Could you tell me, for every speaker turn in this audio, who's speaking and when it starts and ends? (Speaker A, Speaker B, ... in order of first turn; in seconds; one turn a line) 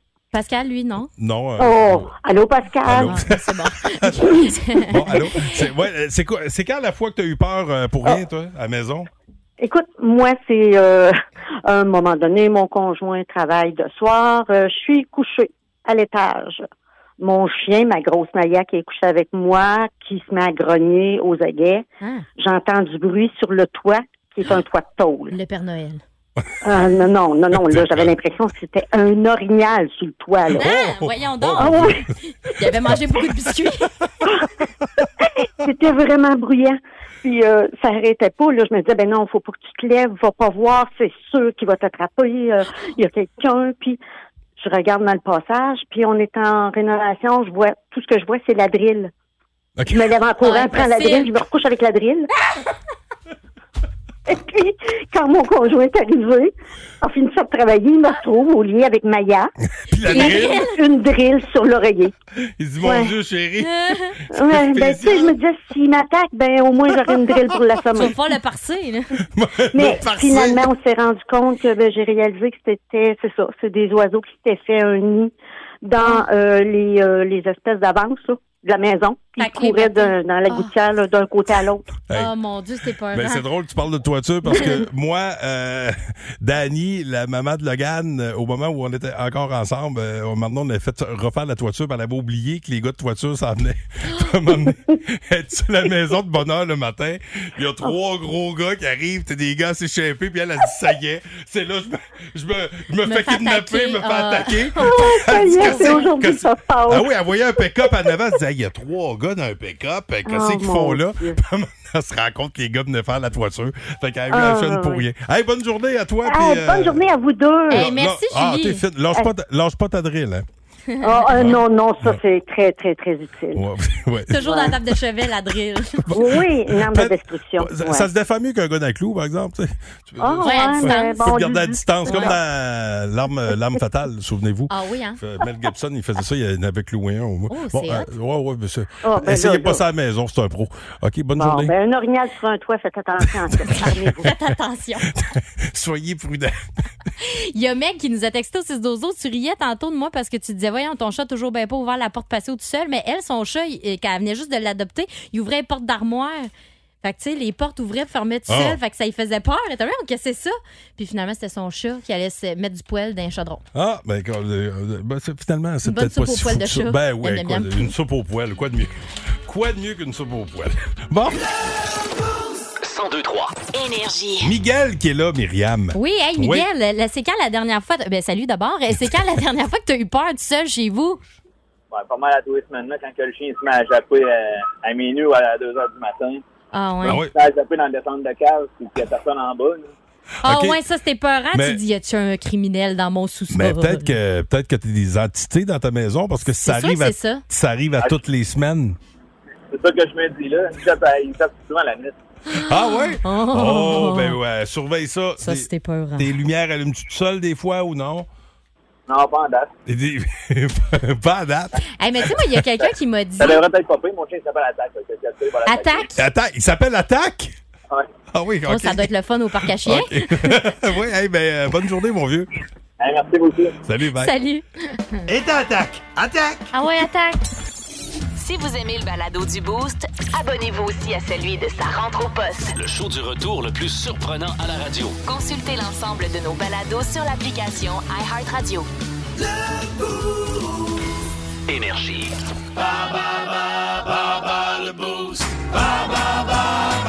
Speaker A: 0.3-1.1
Speaker B: 1.1-2.1
Speaker C: 1.6-3.1
Speaker B: 2.8-9.1
Speaker A: 3.0-5.6
Speaker C: 9.6-11.1
Speaker C: 11.7-16.6
Speaker C: 17.2-21.8
Speaker A: 22.0-22.3
Speaker C: 22.4-25.3
Speaker A: 25.3-26.0
Speaker C: 26.6-30.7
Speaker B: 27.5-28.1
Speaker B: 30.5-32.1
Speaker A: 30.6-33.9
Speaker C: 31.6-32.0
Speaker C: 34.2-34.5
Speaker C: 35.2-44.0
Speaker C: 44.6-49.1
Speaker B: 49.8-50.0
Speaker C: 49.9-52.3
Speaker A: 50.4-51.3
Speaker C: 54.3-59.5
Speaker B: 59.8-60.6
Speaker C: 60.0-62.1
Speaker A: 60.1-60.7
Speaker B: 62.6-65.4
Speaker C: 62.8-63.1
Speaker A: 63.6-64.2
Speaker C: 64.3-68.2
Speaker A: 67.9-69.1
Speaker B: 69.3-70.7
Speaker C: 69.7-75.3
Speaker C: 75.8-81.8
Speaker A: 76.0-76.2
Speaker A: 79.4-80.7
Speaker A: 82.1-83.4
Speaker B: 83.1-117.0
Speaker A: 84.5-84.8
Speaker A: 103.0-104.8
Speaker C: 104.8-107.1
Speaker A: 105.6-106.0
Speaker C: 110.2-111.4
Speaker C: 114.3-115.0
Speaker C: 116.2-117.9
Speaker A: 117.7-118.8
Speaker B: 117.7-120.5
Speaker A: 120.9-121.5
Speaker C: 121.0-123.6
Speaker B: 121.3-122.2
Speaker B: 123.5-124.9
Speaker A: 124.3-126.1
Speaker C: 124.4-124.7
Speaker B: 126.0-141.7
Speaker C: 126.1-128.1
Speaker C: 130.2-132.4
Speaker A: 130.4-131.2
Speaker A: 132.1-132.3
Speaker A: 134.7-135.2
Speaker A: 137.5-138.1
Speaker C: 139.0-139.8
Speaker C: 141.3-144.3
Speaker B: 143.2-144.3
Speaker A: 144.2-145.1
Speaker B: 145.1-146.6
Speaker A: 147.2-156.5
Speaker A: 157.0-163.6
Speaker B: 158.5-158.8
Speaker B: 163.7-171.5
Speaker A: 165.8-167.9
Speaker D: 172.8-173.6
Speaker E: 173.7-174.5
Speaker B: 174.4-176.7
Speaker A: 175.9-181.2
Speaker F: 181.9-186.4
Speaker A: 186.7-187.2
Speaker B: 187.0-187.3
Speaker F: 187.1-189.9
Speaker A: 190.4-194.1
Speaker B: 190.4-190.8
Speaker B: 191.5-191.8
Speaker B: 193.5-199.0
Speaker A: 196.5-197.4
Speaker F: 199.7-202.2
Speaker A: 202.5-204.4
Speaker B: 202.5-208.3
Speaker A: 205.4-206.3
Speaker F: 209.1-209.7
Speaker B: 209.8-212.6
Speaker A: 212.0-213.6
Speaker F: 213.4-216.1
Speaker A: 215.7-216.2
Speaker B: 216.1-217.5
Speaker B: 218.3-219.1
Speaker A: 218.7-220.6
Speaker B: 219.8-222.5
Speaker F: 223.0-223.7
Speaker B: 223.8-224.3
Speaker A: 224.2-225.3
Speaker B: 225.3-226.7
Speaker A: 226.7-227.4
Speaker E: 228.3-232.7
Speaker D: 232.7-235.2
Speaker E: 235.2-238.9
Speaker D: 241.7-242.4
Speaker D: 244.7-245.4